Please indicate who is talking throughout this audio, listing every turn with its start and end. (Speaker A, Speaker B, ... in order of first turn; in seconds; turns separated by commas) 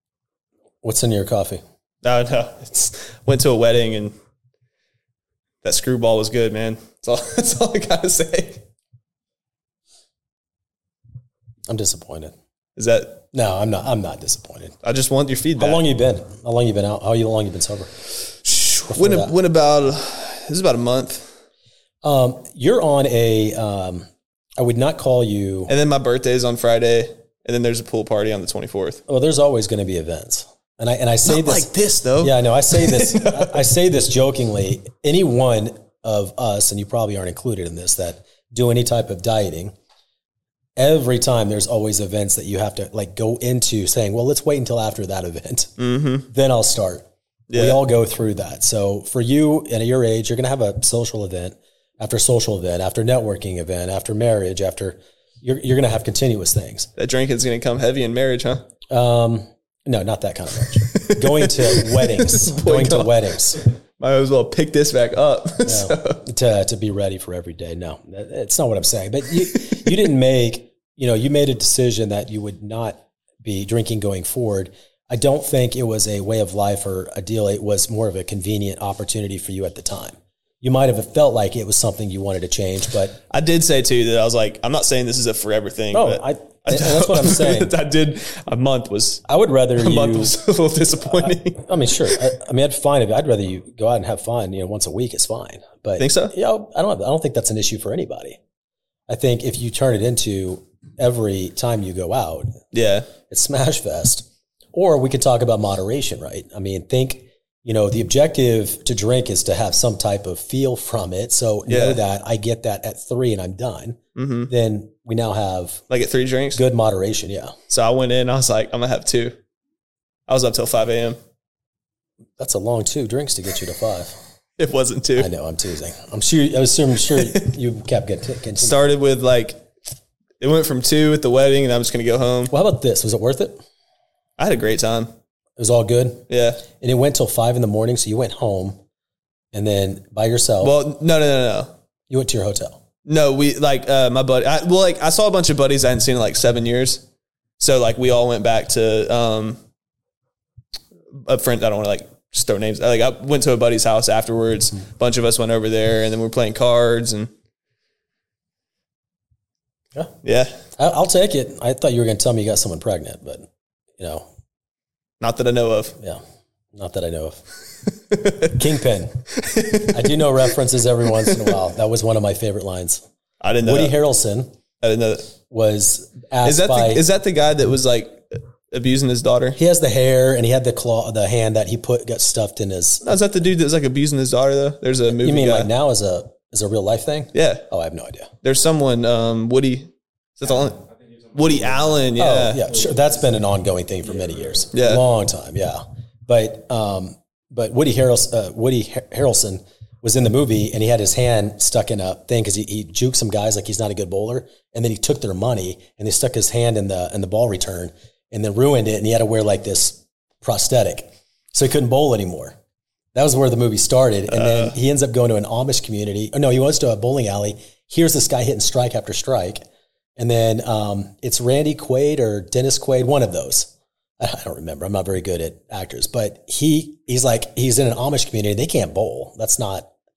Speaker A: 0.8-1.6, Speaker B: 2.0-4.1, Speaker B: 5.6-8.6, Speaker A: 11.7-12.3, Speaker B: 12.8-13.2, Speaker A: 13.3-14.8, Speaker B: 14.8-15.8, Speaker A: 15.6-17.9, Speaker B: 18.4-21.3, Speaker A: 18.9-19.4, Speaker A: 22.0-24.1, Speaker A: 24.6-25.7, Speaker B: 25.7-29.0, Speaker A: 29.1-39.7, Speaker B: 31.2-33.6, Speaker A: 40.8-45.7, Speaker B: 45.8-46.3, Speaker A: 46.3-56.9, Speaker B: 47.5-47.8, Speaker B: 57.0-58.6, Speaker A: 58.9-63.6, Speaker B: 60.8-66.2, Speaker A: 65.6-83.2, Speaker B: 83.3-89.2, Speaker A: 85.9-87.7, Speaker A: 89.3-90.4, Speaker B: 89.8-92.2, Speaker A: 91.2-98.4, Speaker B: 96.0-96.3, Speaker A: 99.1-102.5, Speaker B: 102.7-103.1, Speaker A: 103.3-115.8, Speaker B: 111.7-112.0, Speaker B: 114.2-114.5, Speaker B: 115.9-116.6, Speaker A: 116.5-117.5, Speaker B: 117.7-119.4, Speaker B: 120.3-121.2, Speaker A: 122.4-124.2, Speaker B: 124.6-125.3, Speaker A: 125.2-128.8, Speaker B: 128.6-129.7, Speaker B: 130.4-132.5, Speaker A: 132.5-133.6, Speaker B: 134.4-135.1, Speaker A: 135.6-136.2, Speaker B: 136.3-136.7, Speaker A: 136.8-138.8, Speaker A: 139.5-140.8, Speaker B: 140.6-141.7, Speaker A: 142.1-142.8, Speaker B: 143.1-147.0, Speaker B: 147.6-149.6, Speaker B: 151.2-157.3, Speaker B: 160.2-160.6, Speaker A: 160.8-163.5, Speaker A: 164.0-164.2, Speaker B: 165.2-166.0, Speaker A: 166.8-167.4, Speaker B: 168.1-168.6, Speaker A: 168.5-169.2, Speaker B: 169.4-170.2, Speaker A: 169.9-173.0, Speaker B: 171.3-171.5, Speaker B: 173.4-173.9, Speaker A: 173.6-174.5, Speaker B: 174.8-175.3, Speaker A: 175.5-177.1, Speaker B: 176.4-179.6, Speaker A: 179.6-183.1, Speaker B: 183.0-185.7, Speaker A: 185.1-188.3, Speaker B: 187.3-187.7, Speaker B: 188.4-192.6, Speaker A: 192.2-212.6, Speaker B: 194.7-195.0, Speaker A: 213.2-219.6, Speaker B: 214.3-214.7, Speaker A: 220.2-229.9